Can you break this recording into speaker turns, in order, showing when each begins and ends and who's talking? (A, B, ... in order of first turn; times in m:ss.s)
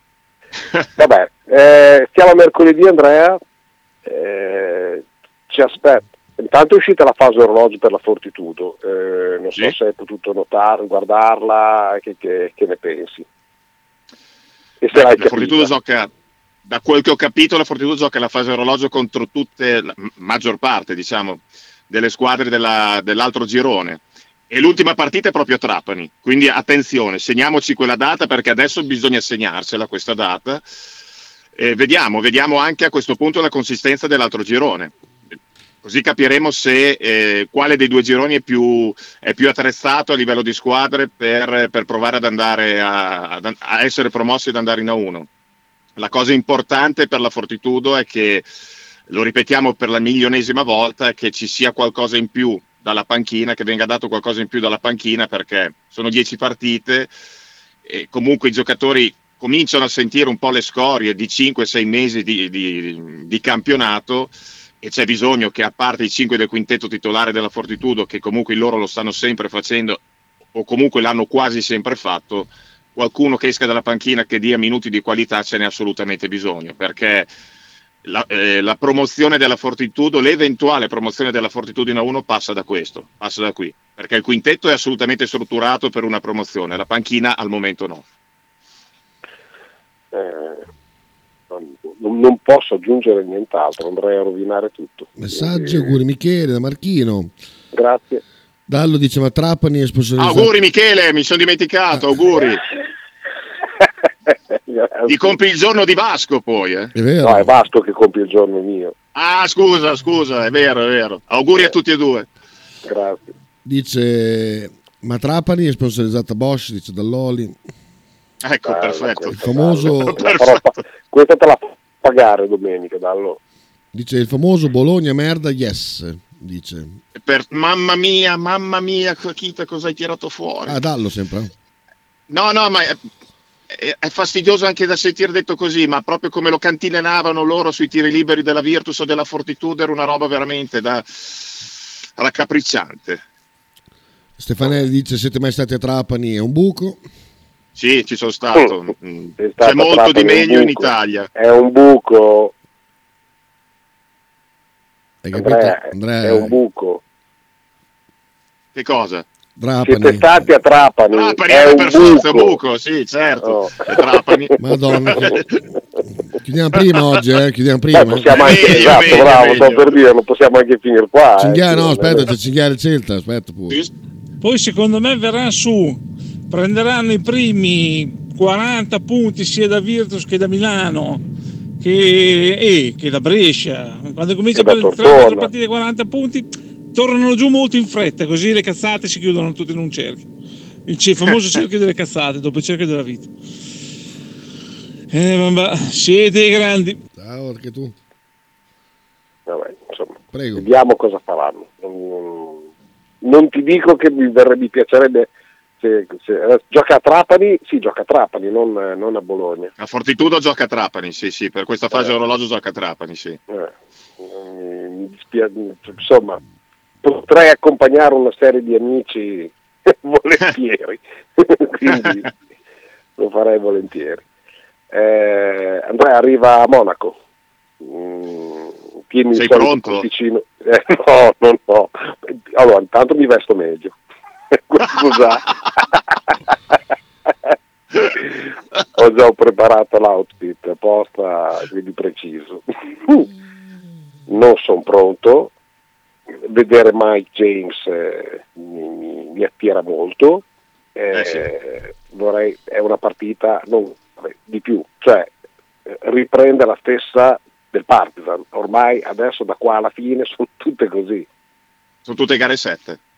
0:01.0-0:03.4 A
0:04.0-0:13.3 A
0:14.8-0:15.7 A
0:14.9-0:16.1 B
0:16.6-0:30.6 B
0:31.6-0:34.9 B
0:35.8-0:45.3 B
0:46.0-0:48.4 B
0:49.1-0:57.1 B
0:57.8-1:10.0 B
1:10.5-1:17.3 B
1:18.0-1:28.0 B
1:30.1-1:30.6 A
1:31.5-1:36.0 A
1:35.2-1:37.3 C
1:37.7-1:38.2 A
1:38.7-1:40.5 C
1:40.2-1:42.6 B
1:44.5-1:45.4 A
1:45.1-1:46.9 B
1:47.0-1:47.6 C
1:47.2-1:49.0 A
1:49.1-1:52.3 B
1:52.8-1:53.3 A
1:53.6-1:57.6 C
1:58.4-1:59.4 B
1:58.6-2:03.4 A
1:59.3-2:00.2 C
2:00.0-2:00.6 B
2:03.9-2:07.0 C
2:07.1-2:10.8 B
2:10.6-2:11.5 C
2:12.3-2:13.0 B
2:13.7-2:23.2 B
2:24.4-2:27.0 C
2:27.8-2:31.3 B
2:29.4-2:32.5 A
2:35.2-2:36.6 C
2:35.3-2:37.0 A
2:38.7-2:39.3 B
2:39.6-2:40.4 C
2:39.8-2:42.6 A
2:41.1-2:45.4 B
2:43.4-2:45.4 A
2:44.6-2:45.4 C
2:46.4-2:49.2 C
2:46.8-2:47.1 B
2:47.9-2:52.3 A
2:48.3-2:50.0 B
2:51.4-2:53.8 C
2:54.4-3:01.2 D
3:01.8-3:10.3 D
3:04.5-3:05.5 A
3:10.9-3:13.3 D
3:15.1-3:17.0 D
3:17.2-3:18.0 C
3:19.5-3:22.7 A
3:20.3-3:20.6 C
3:23.2-3:25.3 A
3:25.8-3:29.7 A
3:29.8-3:33.4 B
3:33.5-3:36.4 A
3:37.0-3:42.3 A
3:41.9-3:42.2 B
3:43.2-3:44.2 A
3:44.9-3:47.2 A
3:47.8-3:54.0 A
3:49.3-3:50.0 B
3:54.5-3:55.5 A
3:58.0-4:03.3 A
4:04.3-4:05.5 A
4:06.4-4:10.4 A
4:11.0-4:15.3 A
4:11.1-4:11.4 B
4:15.9-4:21.3 A
4:22.0-4:23.0 B